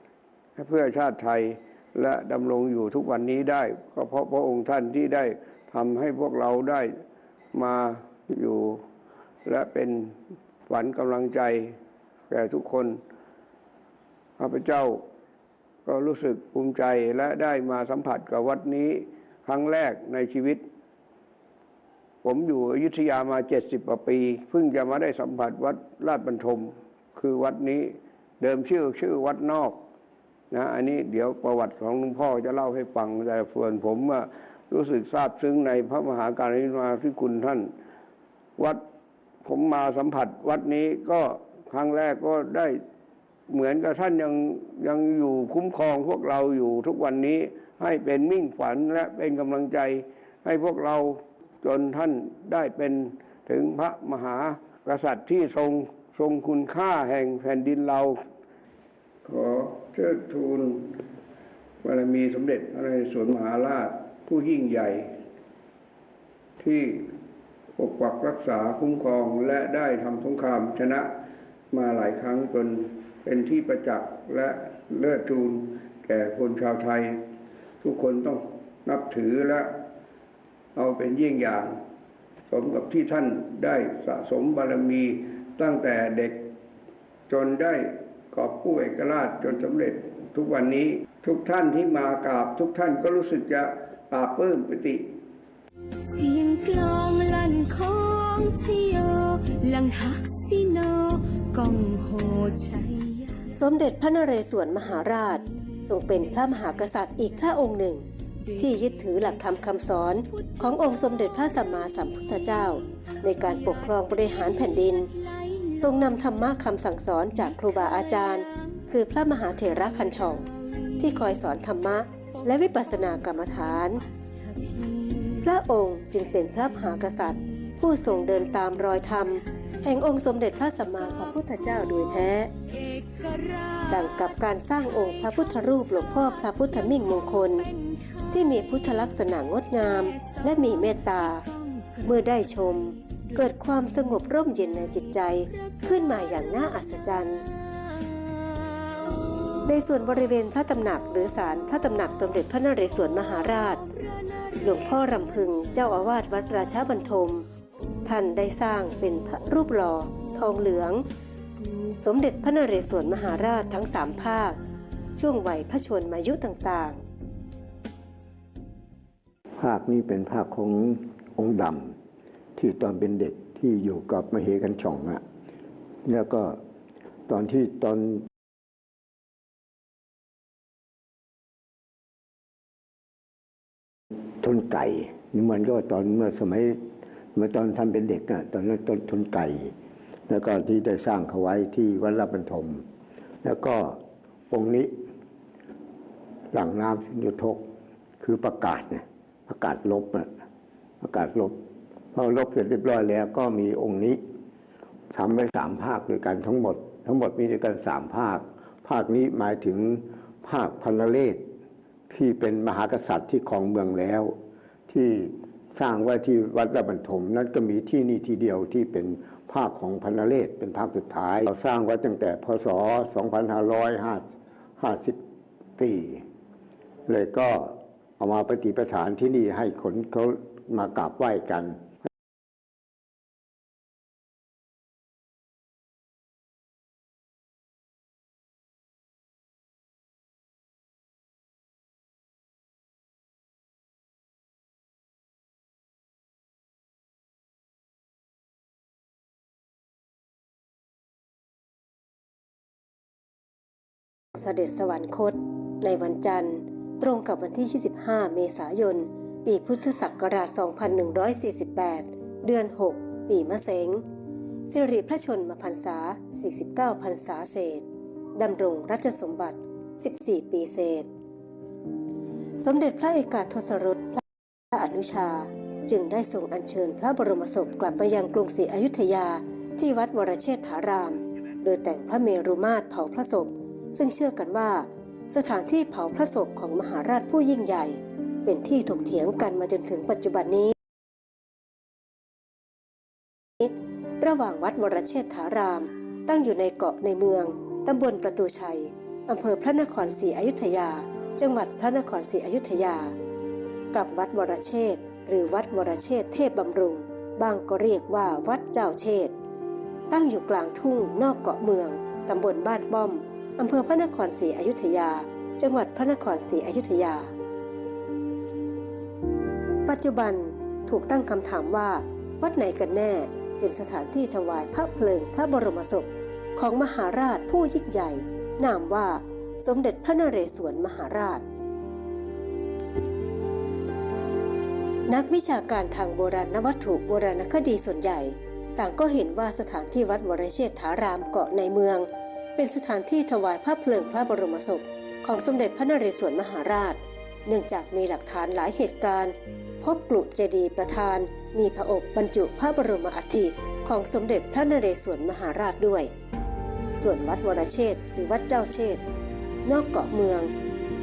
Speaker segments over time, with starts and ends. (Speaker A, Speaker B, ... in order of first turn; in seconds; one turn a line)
Speaker A: 0.6-7.0
Speaker A: 7.5-8.8
Speaker A: 9.4-10.2
Speaker A: 10.7-11.7
Speaker A: 12.3-13.0
Speaker A: 14.4-15.0
Speaker A: 15.8-20.6
Speaker A: 22.2-29.8
Speaker A: 30.5-37.7
Speaker A: 39.4-42.8
Speaker A: 43.5-58.2
Speaker A: 59.2-61.0
Speaker A: 61.8-65.1
Speaker A: 66.6-67.1
Speaker A: 67.8-71.1
Speaker A: 71.7-77.2
Speaker A: 77.8-79.7
Speaker A: 80.7-81.8
Speaker A: 82.5-86.4
Speaker A: 87.3-95.0
Speaker B: 96.0-103.5
Speaker C: 103.5-108.0
Speaker B: 105.5-107.7
Speaker B: 108.4-116.4
Speaker C: 108.6-115.1
Speaker C: 115.8-120.4
Speaker B: 117.2-121.6
Speaker C: 121.0-124.0
Speaker B: 122.4-125.6
Speaker C: 125.4-132.5
Speaker B: 128.7-130.2
Speaker B: 130.7-139.1
Speaker C: 133.9-137.7
Speaker C: 138.3-141.4
Speaker B: 139.6-150.0
Speaker C: 142.0-147.4
Speaker C: 149.6-153.8
Speaker B: 150.9-156.8
Speaker C: 154.6-157.4
Speaker C: 158.0-161.1
Speaker B: 161.6-161.9
Speaker C: 162.0-164.6
Speaker C: 165.2-167.0
Speaker D: 169.6-171.9
Speaker D: 172.6-175.2
Speaker D: 176.0-176.6
Speaker D: 177.3-178.2
Speaker D: 184.4-186.8
Speaker D: 187.3-189.7
Speaker D: 190.3-192.8
Speaker D: 193.4-194.9
Speaker D: 196.5-197.6
Speaker D: 198.2-200.3
Speaker D: 201.0-201.6
Speaker D: 202.1-204.2
Speaker D: 205.1-211.4
Speaker D: 212.1-214.3
Speaker D: 214.9-225.2
Speaker D: 225.8-226.2
Speaker D: 227.1-231.8
Speaker C: 254.3-264.0
Speaker C: 264.7-267.8
Speaker C: 268.4-271.1
Speaker C: 272.6-290.7
Speaker C: 293.6-303.1
Speaker C: 303.9-309.3
Speaker C: 310.1-317.3
Speaker C: 319.8-331.4
Speaker C: 335.1-356.1
Speaker C: 356.9-359.0
Speaker C: 359.6-360.5